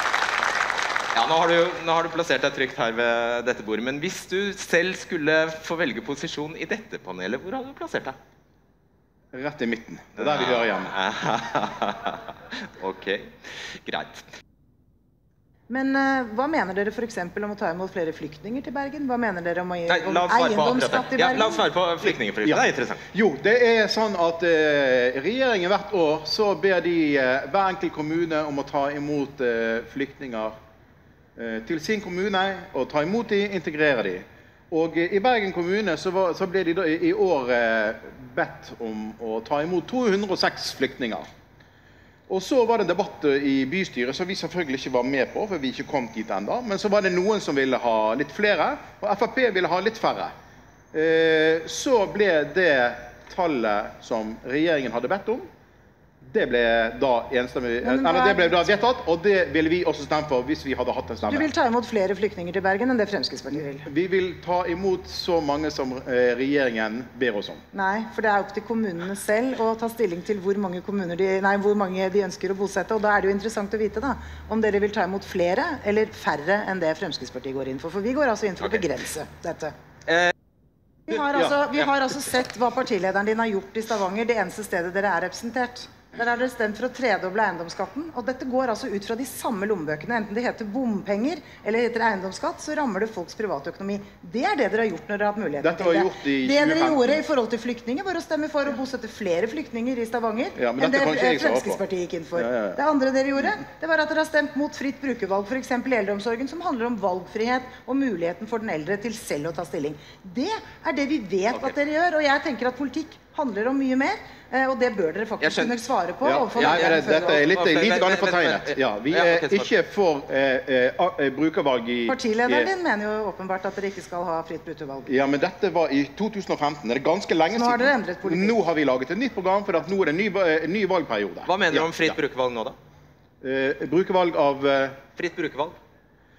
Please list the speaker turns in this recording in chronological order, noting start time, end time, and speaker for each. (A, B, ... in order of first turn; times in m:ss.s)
0:01.1-0:08.2 A
0:09.3-0:11.0 B
0:10.2-0:14.2 A
0:15.7-0:21.7 C
0:19.9-0:23.0 A
0:22.4-0:30.5 B
0:31.4-0:41.2 B
0:42.3-0:50.3 B
0:50.9-0:55.4 B
0:56.2-1:01.5 B
0:57.8-0:58.5 C
1:01.3-1:03.9 C
1:03.8-1:07.6 B
1:07.7-1:19.7 C
1:21.1-1:57.4 C
1:35.6-1:37.2 B
1:40.6-1:41.8 B
1:42.4-1:42.8 B
1:55.4-1:55.8 A
1:56.2-2:02.7 B
1:56.6-1:59.7 A
2:02.1-2:05.1 C
2:05.1-2:12.2 B
2:07.5-2:08.6 C
2:11.5-2:12.8 A
2:13.4-2:15.0 B
2:15.2-2:15.8 A